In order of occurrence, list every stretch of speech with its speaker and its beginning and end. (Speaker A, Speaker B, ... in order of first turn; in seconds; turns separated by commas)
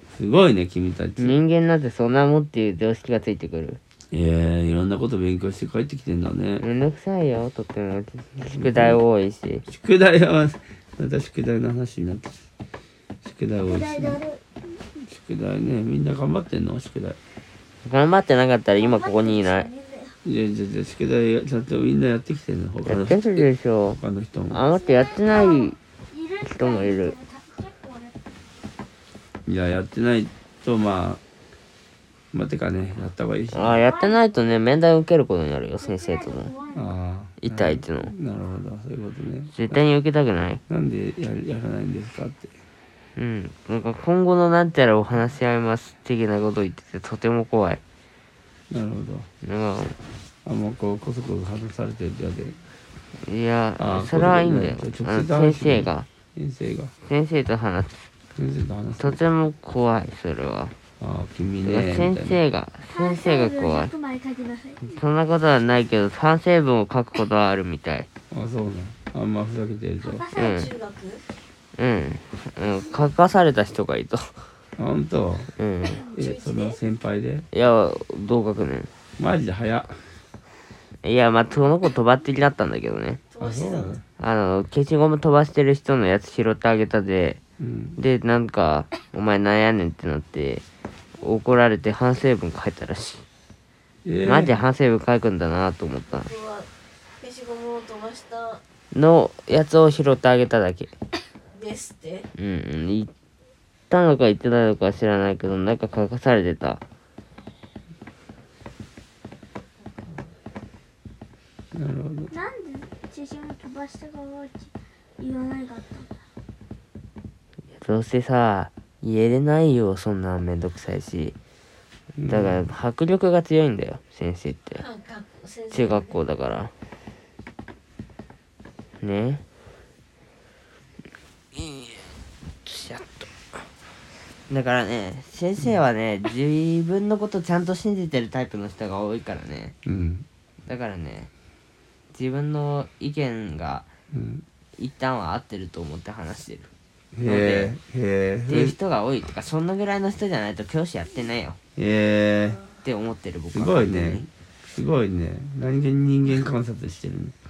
Speaker A: 0.1-1.4, Speaker B: 1.2-3.8, Speaker A: 4.1-6.6, Speaker B: 6.6-9.7, Speaker A: 8.4-9.0, Speaker A: 9.7-12.4, Speaker A: 13.2-14.2, Speaker C: 13.6-14.4, Speaker A: 14.9-17.2, Speaker B: 17.8-19.7, Speaker C: 18.7-20.2, Speaker A: 20.2-24.6, Speaker B: 22.9-24.0, Speaker B: 24.5-25.8, Speaker C: 24.7-28.2, Speaker B: 26.4-27.1, Speaker A: 29.4-31.2, Speaker A: 32.3-33.8, Speaker B: 33.5-36.5, Speaker C: 33.8-34.4, Speaker C: 35.8-37.0, Speaker A: 36.7-39.8, Speaker B: 37.4-38.1, Speaker B: 39.5-40.6, Speaker A: 40.7-42.5, Speaker B: 43.1-47.8, Speaker A: 48.7-49.3, Speaker B: 49.4-50.0, Speaker A: 50.4-52.6, Speaker B: 53.1-56.1, Speaker A: 53.8-56.9, Speaker B: 57.0-57.9, Speaker A: 58.3-59.2, Speaker B: 59.0-60.7, Speaker A: 61.0-62.4, Speaker B: 61.6-63.9, Speaker C: 62.8-65.0, Speaker B: 64.8-68.1, Speaker A: 68.3-70.3, Speaker D: 70.1-71.2, Speaker B: 70.3-70.7, Speaker B: 71.8-74.3, Speaker A: 74.8-75.5, Speaker B: 75.6-76.0, Speaker D: 75.8-76.8, Speaker A: 76.1-77.5, Speaker B: 77.5-78.9, Speaker A: 79.2-80.0, Speaker B: 81.0-83.2, Speaker D: 83.3-84.0, Speaker A: 83.4-84.0, Speaker B: 84.2-87.4, Speaker A: 87.6-88.0, Speaker B: 88.0-90.6, Speaker B: 91.2-93.2, Speaker A: 94.0-94.5, Speaker B: 94.2-96.3, Speaker D: 96.3-96.7, Speaker D: 97.2-98.6, Speaker B: 98.9-100.9, Speaker D: 101.5-102.2, Speaker B: 102.4-103.1, Speaker B: 103.9-106.8, Speaker D: 109.8-110.3, Speaker A: 111.7-112.3, Speaker C: 112.3-116.2, Speaker B: 117.7-121.3, Speaker A: 122.2-122.6, Speaker B: 122.3-124.8, Speaker D: 124.7-126.2, Speaker B: 125.7-126.7, Speaker B: 129.0-129.4, Speaker B: 131.5-132.0, Speaker B: 132.6-133.3, Speaker B: 134.5-139.7, Speaker A: 139.8-140.2, Speaker B: 140.7-141.3, Speaker B: 142.1-143.9, Speaker A: 144.1-144.4, Speaker B: 144.8-146.7, Speaker A: 147.1-148.8, Speaker B: 147.2-147.7, Speaker B: 148.5-151.6, Speaker A: 151.8-152.6, Speaker B: 152.8-154.2, Speaker A: 153.5-157.3